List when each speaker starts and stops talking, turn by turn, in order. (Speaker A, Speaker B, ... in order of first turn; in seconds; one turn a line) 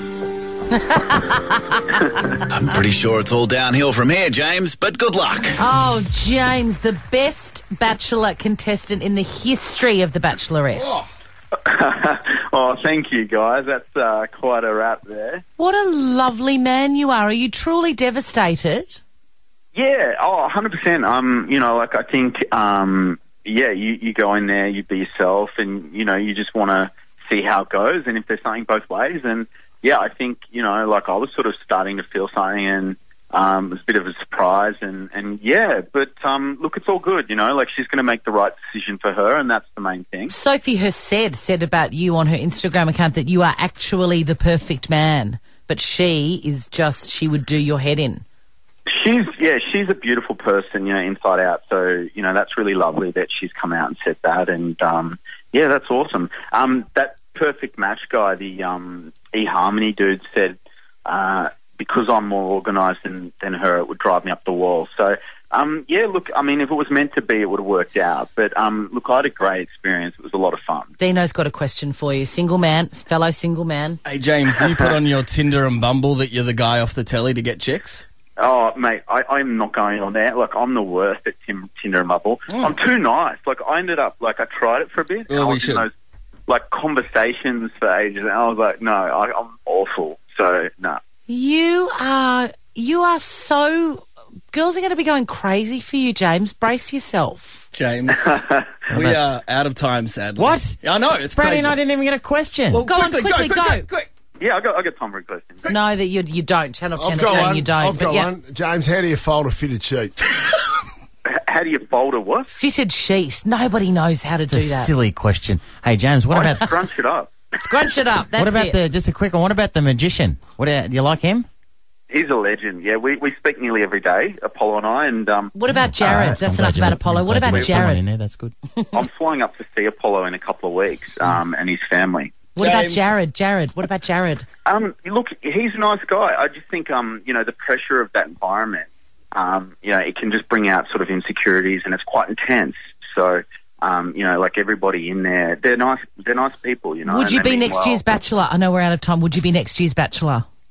Speaker A: 0.9-1.4
Speaker B: 2.5-5.6
Speaker A: 5.6-11.0
Speaker C: 11.7-15.4
Speaker A: 15.6-19.0
Speaker C: 19.7-40.3
Speaker A: 40.3-48.2
Speaker C: 49.0-70.9
Speaker A: 71.0-74.0
Speaker D: 74.0-78.0
Speaker C: 78.4-85.9
Speaker D: 85.3-85.8
Speaker C: 86.5-91.0
Speaker A: 91.3-97.6
Speaker D: 97.7-101.8
Speaker C: 98.2-98.7
Speaker E: 98.9-99.2
Speaker E: 100.4-100.8
Speaker E: 101.3-102.8
Speaker D: 102.7-104.1
Speaker A: 102.8-103.8
Speaker C: 104.4-105.8
Speaker A: 105.7-108.3
Speaker F: 107.0-110.2
Speaker C: 111.2-112.5
Speaker A: 112.5-114.9
Speaker E: 114.5-116.6
Speaker C: 116.3-117.5
Speaker A: 117.6-118.8
Speaker E: 118.4-121.5
Speaker C: 122.1-126.4
Speaker A: 125.5-128.0
Speaker E: 125.7-128.5
Speaker C: 127.5-127.8
Speaker C: 128.9-132.5
Speaker A: 132.5-134.4
Speaker D: 132.6-133.2
Speaker C: 134.7-148.0
Speaker A: 147.0-150.4